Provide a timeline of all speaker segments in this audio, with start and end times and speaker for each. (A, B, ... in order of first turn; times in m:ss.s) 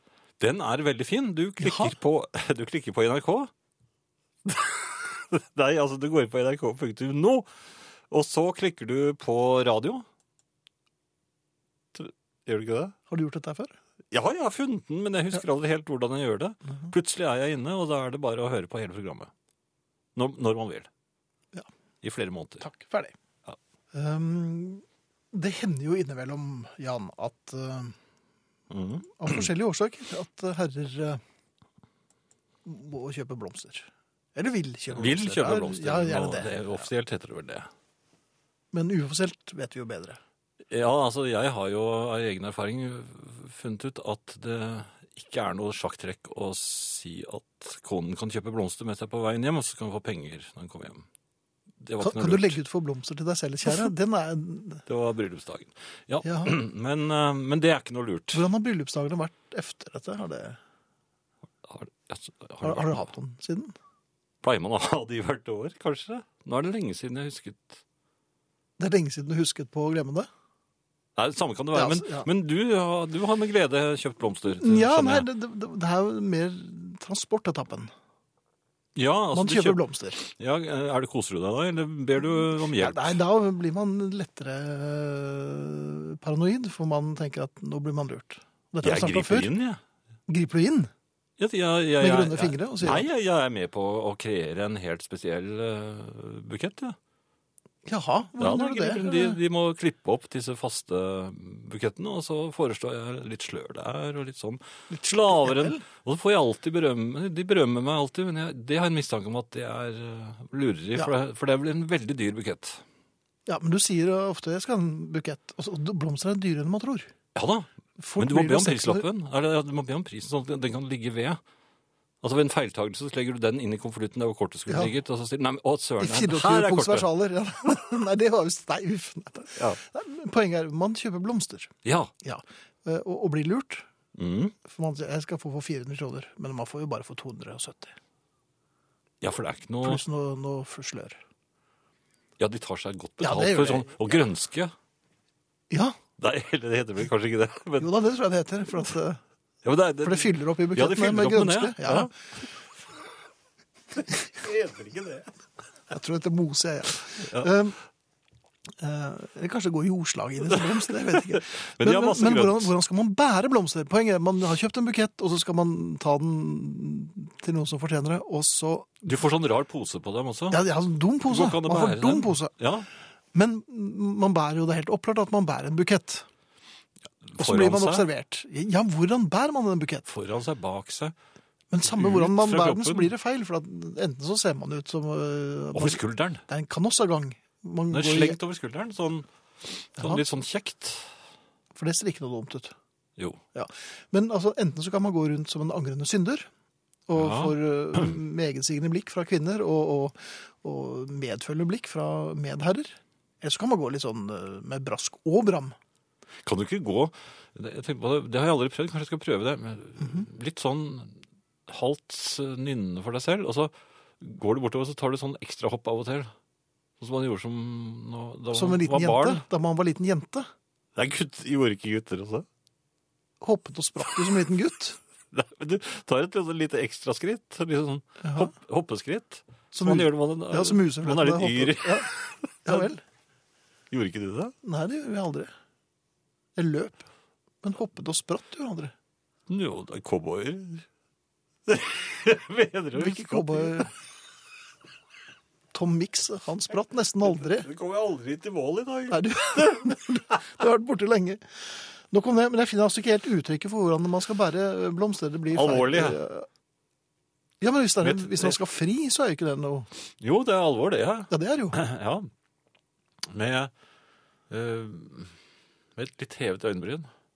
0:00.4-0:03.5 A
0:01.6-0:02.0 B
0:04.4-0:07.5 A
0:08.1-0:10.0 A
0:11.9-0:13.0 A
0:13.1-0:13.8 B
0:14.1-0:19.3 A
0:20.2-0:20.9 A
0:22.0-0:22.7 A
0:22.6-0:23.1 B
0:23.9-0:28.0 B
0:28.7-0:29.5 A
0:29.2-0:31.2 B
0:32.6-0:36.9 B
0:34.9-0:37.7 A
0:38.7-0:40.2 B
0:40.7-0:51.1 A
0:51.8-0:52.6 A
0:52.0-0:54.8 B
0:54.9-0:58.4 A
0:56.2-0:56.6 B
0:58.3-1:00.6 B
1:01.6-1:03.0 A
1:02.6-1:03.7 B
1:04.4-1:07.8 A
1:08.8-1:10.3 B
1:11.2-1:15.3 A
1:11.7-1:12.3 B
1:14.6-1:17.9 B
1:19.0-1:23.2 A
1:19.3-1:20.2 B
1:22.6-1:29.5 B
1:28.8-1:29.8 A
1:30.3-1:30.9 B
1:31.4-1:37.0 A
1:32.0-1:33.1 B
1:37.8-1:39.4 B
1:38.4-1:52.8 A
1:44.9-1:45.8 B
1:53.5-1:57.1 B
1:57.4-2:01.4 A
1:58.0-1:59.1 B
2:02.2-2:07.1 A
2:04.7-2:04.9 B
2:06.0-2:13.9 B
2:11.8-2:12.1 A
2:14.2-2:14.6 A
2:14.6-2:18.0 B
2:19.2-2:20.0 A
2:19.8-2:21.2 B
2:22.4-2:24.7 A
2:23.2-2:24.0 B
2:25.7-2:26.0 B
2:26.2-2:27.9 A
2:27.8-2:29.2 B
2:29.6-2:32.1 A
2:30.0-2:32.1 B
2:34.3-2:35.3 A
2:35.9-2:37.8 B
2:37.1-2:37.5 A
2:38.8-2:49.0 B
2:41.1-2:42.7 A
2:49.0-2:50.6 A
2:50.5-2:52.5 B
2:51.3-2:52.9 A
2:53.3-2:56.3 B
2:57.3-2:58.1 A
2:57.4-3:00.1 B
3:00.1-3:01.1 A
3:01.7-3:08.4 B
3:01.8-3:03.1 A
3:05.7-3:06.4 A
3:07.9-3:09.3 A
3:09.8-3:11.1 A
3:10.0-3:10.2 B
3:11.7-3:12.7 B
3:13.6-3:16.5 B
3:17.1-3:25.8 B
3:17.2-3:18.2 A
3:26.4-3:36.3 A
3:37.0-3:39.4 A
3:38.5-3:40.5 B
3:41.0-3:42.5 A
3:43.4-3:45.0 B
3:45.3-3:52.9 A
3:48.2-3:48.5 B
3:49.7-3:52.1 B
3:52.6-3:53.0 B
3:53.9-3:54.5 A
3:54.6-3:55.5 B
3:56.6-3:57.0 B
3:57.6-3:58.9 B
3:59.5-4:00.8 A
4:01.7-4:03.9 A
4:03.0-4:03.9 B
4:05.7-4:07.7 B
4:07.3-4:10.0 A
4:09.1-4:16.5 B
4:15.5-4:16.2 A
4:17.6-4:19.9 B
4:18.0-4:18.6 A
4:20.2-4:22.3 A
4:21.3-4:21.8 B
4:23.3-4:23.7 A
4:24.5-4:25.3 A
4:26.0-4:27.1 A